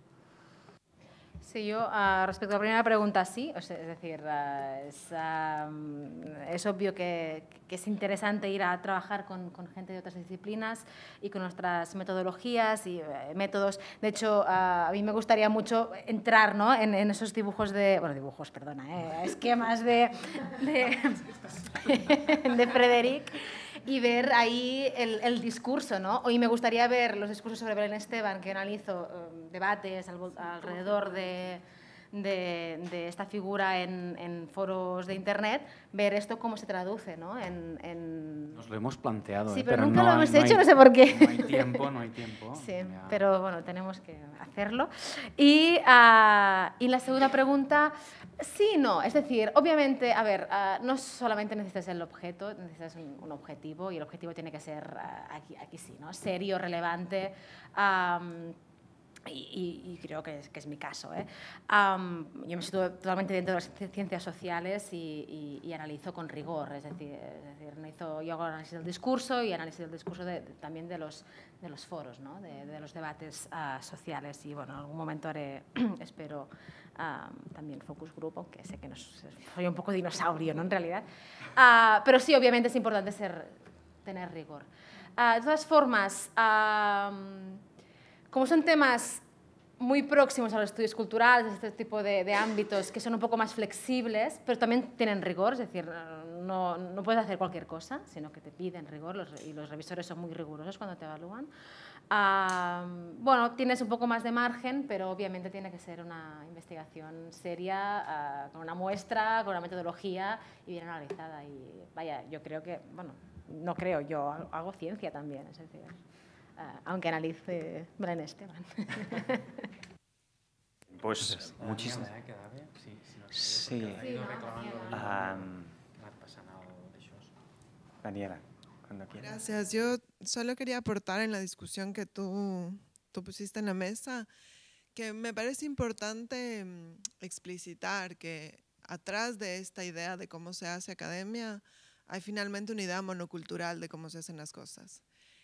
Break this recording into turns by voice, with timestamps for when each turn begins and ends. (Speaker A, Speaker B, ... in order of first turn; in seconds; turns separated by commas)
Speaker A: 1.4-38.6, Speaker B: 38.5-43.2, Speaker A: 39.5-41.9, Speaker A: 42.5-58.6, Speaker A: 59.3-87.6, Speaker A: 88.3-89.2, Speaker A: 89.8-101.5, Speaker A: 102.1-116.0, Speaker A: 116.6-119.7, Speaker C: 120.9-122.1, Speaker B: 121.3-125.4, Speaker C: 123.3-124.0, Speaker A: 124.0-125.2, Speaker C: 124.9-125.7, Speaker B: 126.0-127.3, Speaker C: 128.0-129.6, Speaker D: 129.1-134.3, Speaker D: 134.9-145.0